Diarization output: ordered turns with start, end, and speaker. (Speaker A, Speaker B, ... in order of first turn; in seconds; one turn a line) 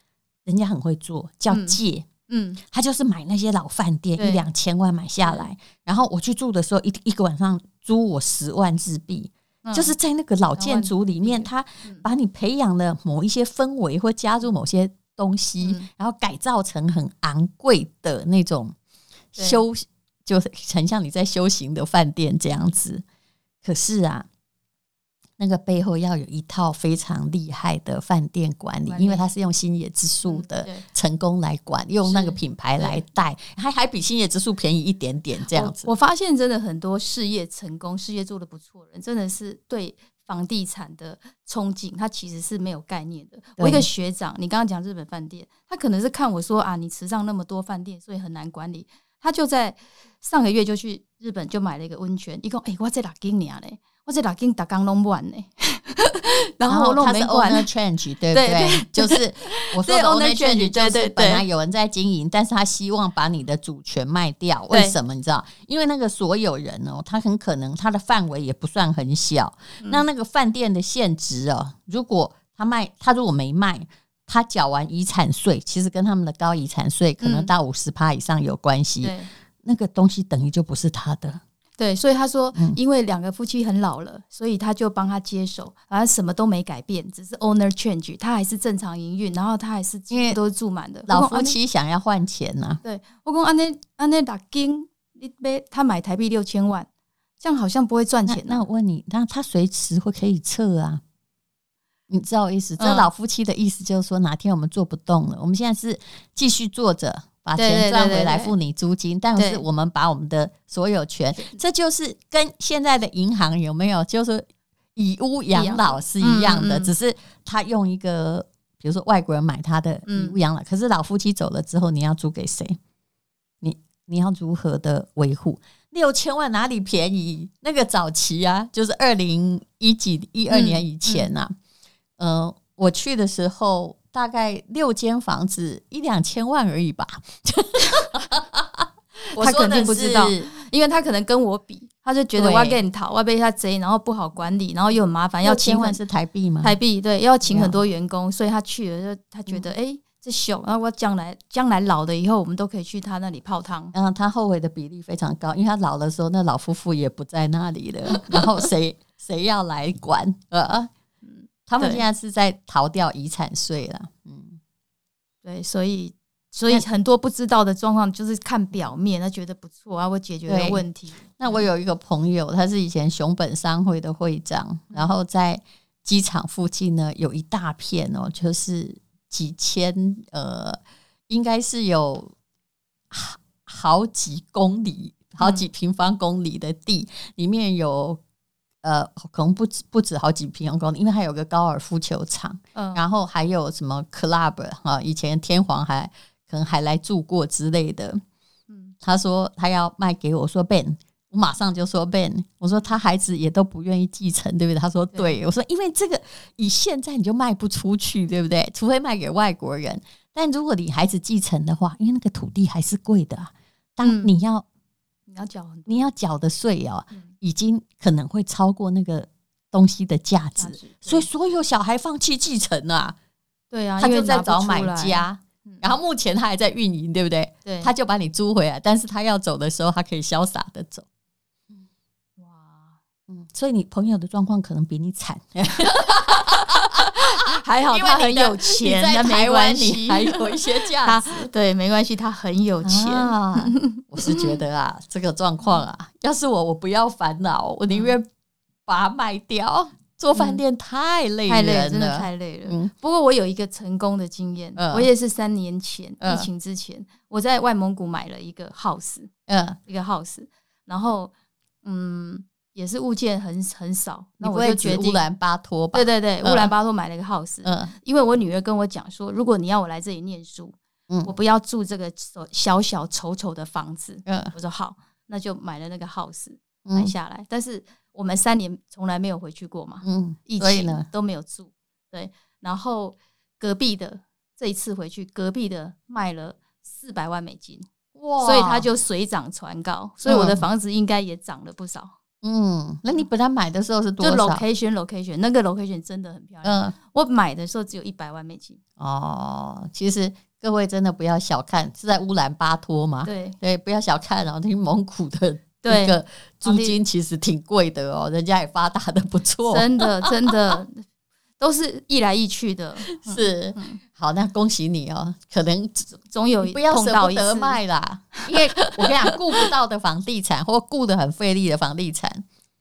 Speaker A: 0.5-2.1
Speaker B: 1.5-2.6
Speaker A: 2.6-18.8
Speaker B: 4.2-4.4
Speaker B: 9.6-9.9
Speaker B: 10.6-12.0
Speaker B: 15.6-15.9
Speaker A: 19.3-23.0
Speaker B: 19.4-19.6
Speaker A: 23.6-24.3
Speaker A: 25.4-35.9
Speaker B: 28.9-29.2
Speaker B: 30.2-30.8
Speaker B: 32.0-33.0
Speaker B: 35.5-57.7
Speaker A: 43.6-43.9
Speaker A: 56.7-81.4
Speaker B: 58.3-61.4
Speaker B: 64.7-65.0
Speaker B: 77.2-77.5
Speaker B: 79.0-79.3
Speaker B: 81.8-91.5
Speaker A: 90.1-90.4
Speaker A: 91.1-92.8
Speaker B: 92.8-96.9
Speaker B: 97.4-98.6
Speaker A: 98.3-101.0
Speaker A: 102.1-122.8
Speaker B: 102.8-103.1
Speaker B: 107.5-108.5
Speaker B: 109.3-109.6
Speaker B: 115.5-116.9
Speaker B: 120.1-120.4
Speaker A: 123.6-131.5
Speaker B: 130.5-131.3
Speaker A: 132.2-140.5
Speaker B: 139.3-146.0
Speaker A: 142.3-142.8
Speaker A: 145.4-146.8
Speaker B: 146.6-153.9
Speaker A: 147.4-147.8
Speaker A: 153.9-160.9
Speaker B: 158.1-158.4
Speaker B: 161.2-162.0
Speaker A: 161.7-164.6
Speaker B: 165.4-171.7
Speaker A: 170.5-170.8
Speaker A: 171.4-182.3
Speaker A: 183.1-188.2
Speaker B: 185.4-185.7
Speaker A: 188.8-198.2
Speaker B: 192.7-193.0
Speaker B: 198.7-198.9
Speaker A: 199.0-214.6
Speaker B: 214.0-214.3
Speaker B: 215.3-216.1
Speaker A: 215.9-223.2
Speaker B: 220.6-221.3
Speaker B: 223.7-225.9
Speaker A: 224.0-231.1
Speaker B: 227.6-227.9
Speaker B: 232.4-233.0
Speaker A: 233.3-237.2
Speaker B: 235.8-244.5
Speaker A: 237.9-241.5
Speaker A: 242.8-248.3
Speaker B: 247.9-248.1
Speaker A: 248.9-252.9
Speaker B: 250.3-250.6
Speaker B: 251.5-259.3
Speaker A: 254.8-255.1
Speaker A: 256.2-256.5
Speaker A: 259.5-259.8
Speaker B: 259.9-261.3
Speaker B: 261.8-265.2
Speaker A: 264.4-266.7
Speaker B: 265.9-287.9
Speaker A: 267.6-267.9
Speaker A: 274.2-274.5
Speaker A: 276.8-277.1
Speaker A: 280.0-281.1
Speaker A: 288.1-288.9
Speaker B: 288.4-292.1
Speaker A: 290.2-290.6
Speaker A: 292.4-294.6
Speaker B: 294.2-298.8
Speaker A: 296.6-296.9
Speaker A: 299.0-310.5
Speaker B: 303.2-303.6
Speaker B: 305.8-307.0
Speaker B: 309.7-311.0
Speaker B: 311.6-314.0
Speaker A: 313.1-316.1
Speaker B: 316.2-317.8
Speaker A: 316.6-322.4
Speaker B: 318.4-319.7